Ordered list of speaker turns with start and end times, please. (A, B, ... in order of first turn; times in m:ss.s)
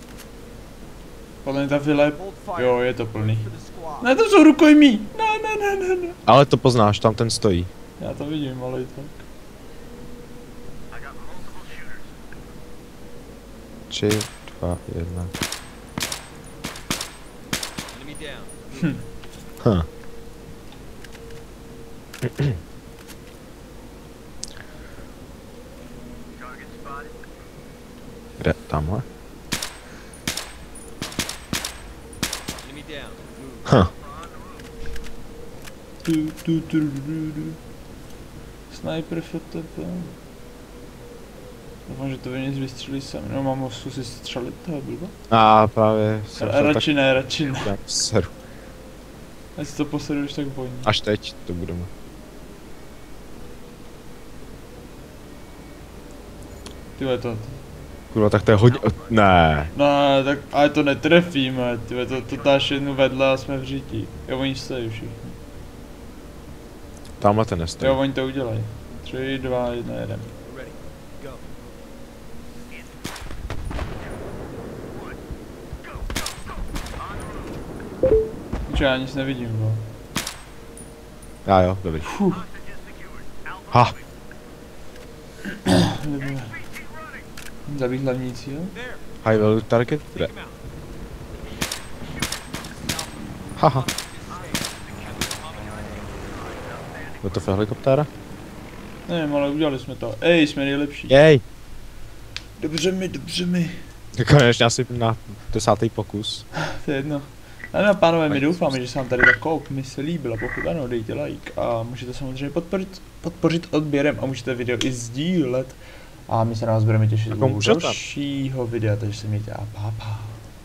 0:01.4-0:06.2 A
0:06.3-0:07.7 B
0:08.0-0:09.2 A
0:13.9-0:15.3 B
0:19.6-0:19.9 B
0:22.2-0:22.6 B
0:28.4-0:29.0 B
0:33.7-0:33.9 B
0:36.0-0:37.6 A
0:38.7-0:40.2 A
0:41.9-0:45.1 A
0:45.3-0:46.9 B
0:46.4-0:47.8 A
0:47.6-0:48.3 B
0:49.6-0:50.9 A
0:50.9-0:51.9 B
0:57.0-0:57.6 A
0:58.1-0:59.7 B
0:59.7-1:05.4 A
1:07.2-1:08.0 B
1:07.8-1:10.3 A
1:18.7-1:19.8 A
1:21.5-1:22.1 B
1:22.1-1:22.4 A
1:23.7-1:24.0 B
1:25.5-1:26.6 A
1:27.7-1:28.8 A
1:29.2-1:30.3 B
1:33.6-1:33.9 B
1:37.2-1:38.1 B
1:39.1-1:41.2 A
1:41.1-1:41.4 B
1:42.6-1:43.8 A
1:44.2-1:46.4 B
1:46.7-2:00.4 A
1:57.4-1:58.0 B